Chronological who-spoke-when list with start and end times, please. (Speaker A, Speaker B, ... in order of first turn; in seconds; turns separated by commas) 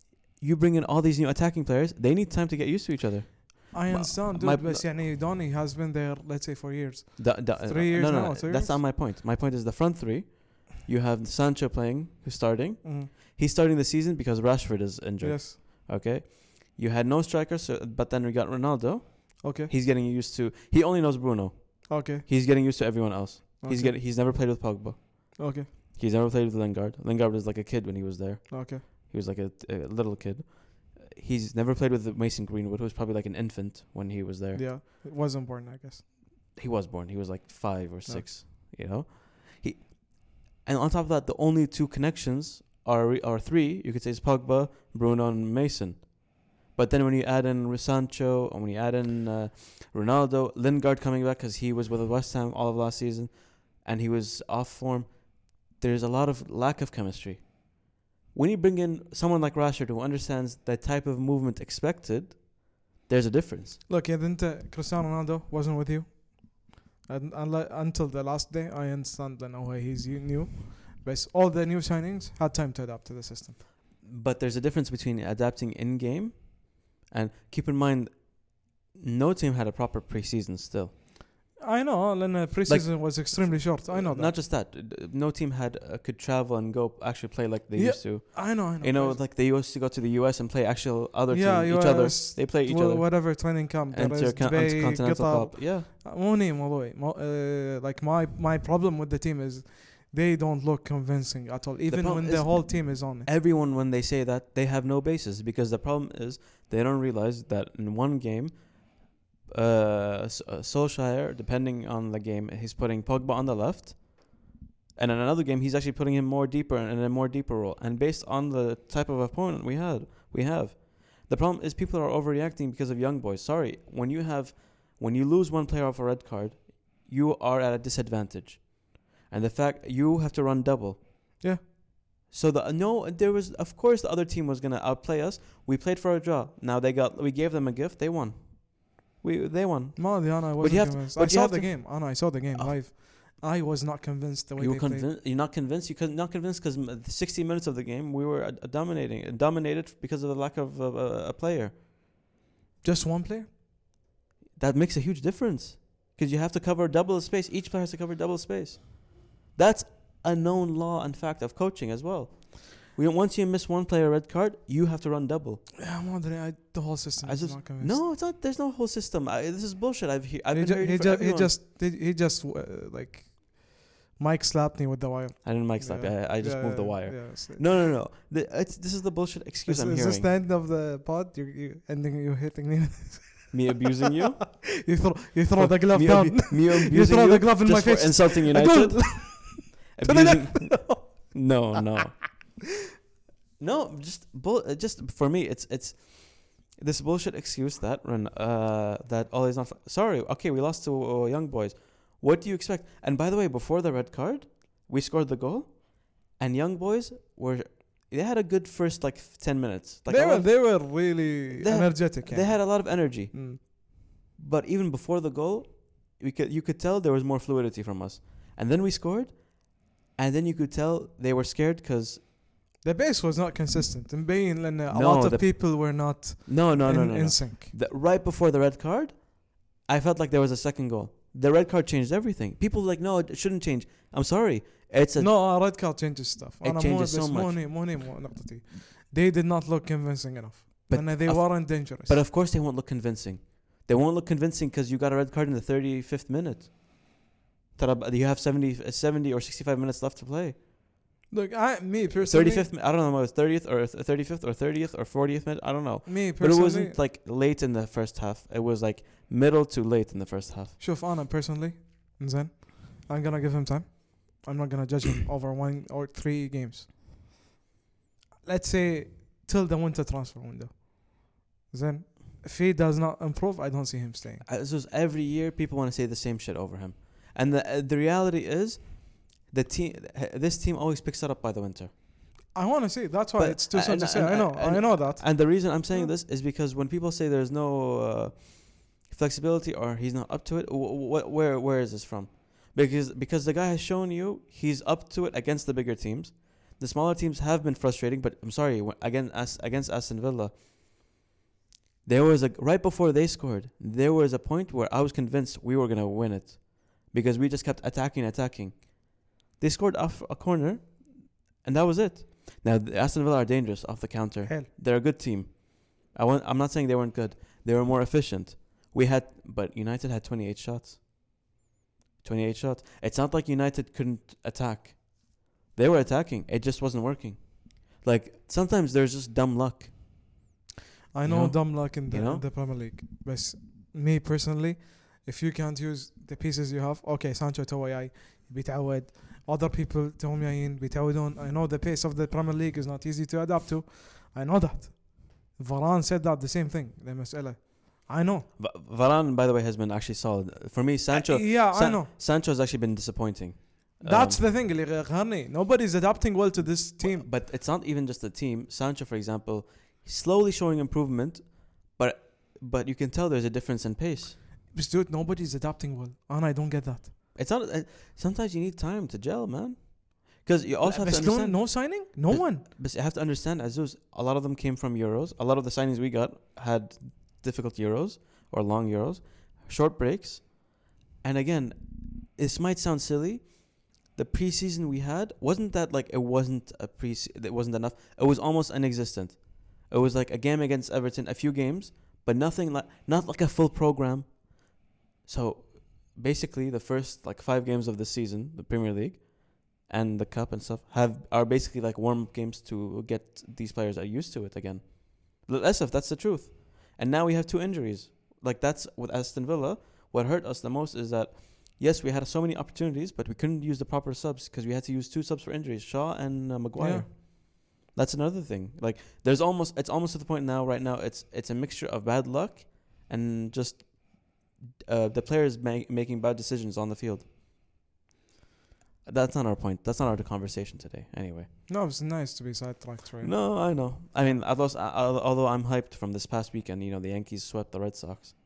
Speaker A: 0.4-4.8, Speaker B: 3.7-8.8, Speaker A: 7.2-34.7, Speaker B: 12.8-13.1, Speaker B: 15.2-15.6, Speaker B: 19.4-19.7, Speaker B: 21.9-22.2, Speaker B: 23.6-24.5, Speaker B: 25.4-25.7, Speaker B: 28.5-28.8, Speaker B: 34.5-36.0, Speaker A: 36.5-63.8, Speaker B: 63.9-73.6, Speaker A: 74.0-80.9, Speaker B: 81.6-84.3, Speaker A: 82.7-95.9, Speaker B: 87.7-89.2, Speaker B: 91.3-103.3, Speaker A: 101.9-131.1, Speaker A: 132.3-142.8, Speaker B: 139.9-145.1, Speaker A: 144.6-151.8, Speaker B: 152.8-153.5, Speaker A: 154.6-165.7, Speaker B: 165.8-168.0, Speaker A: 167.2-171.6, Speaker B: 170.5-177.8, Speaker A: 175.4-180.3, Speaker B: 179.7-183.8, Speaker A: 183.5-184.8, Speaker B: 184.5-191.6, Speaker A: 185.5-192.6, Speaker A: 193.6-222.3, Speaker B: 210.1-213.6, Speaker B: 222.8-227.7, Speaker A: 224.9-235.3, Speaker B: 235.2-242.2, Speaker A: 236.6-237.6, Speaker A: 240.9-250.6, Speaker B: 251.3-252.7, Speaker A: 252.2-260.8, Speaker B: 256.0-257.0, Speaker B: 260.8-266.9, Speaker B: 268.4-274.4, Speaker A: 274.4-281.9, Speaker B: 282.5-286.1, Speaker A: 283.4-300.6, Speaker A: 302.0-321.2, Speaker A: 322.2-330.4, Speaker B: 331.1-348.5, Speaker A: 331.2-332.4, Speaker A: 348.6-354.4, Speaker B: 351.1-352.1, Speaker B: 354.0-357.3, Speaker A: 357.0-364.4, Speaker B: 364.7-367.1, Speaker A: 367.3-427.3, Speaker B: 370.8-372.6, Speaker B: 416.8-417.1, Speaker A: 429.0-431.5, Speaker B: 431.7-434.4, Speaker A: 433.2-438.4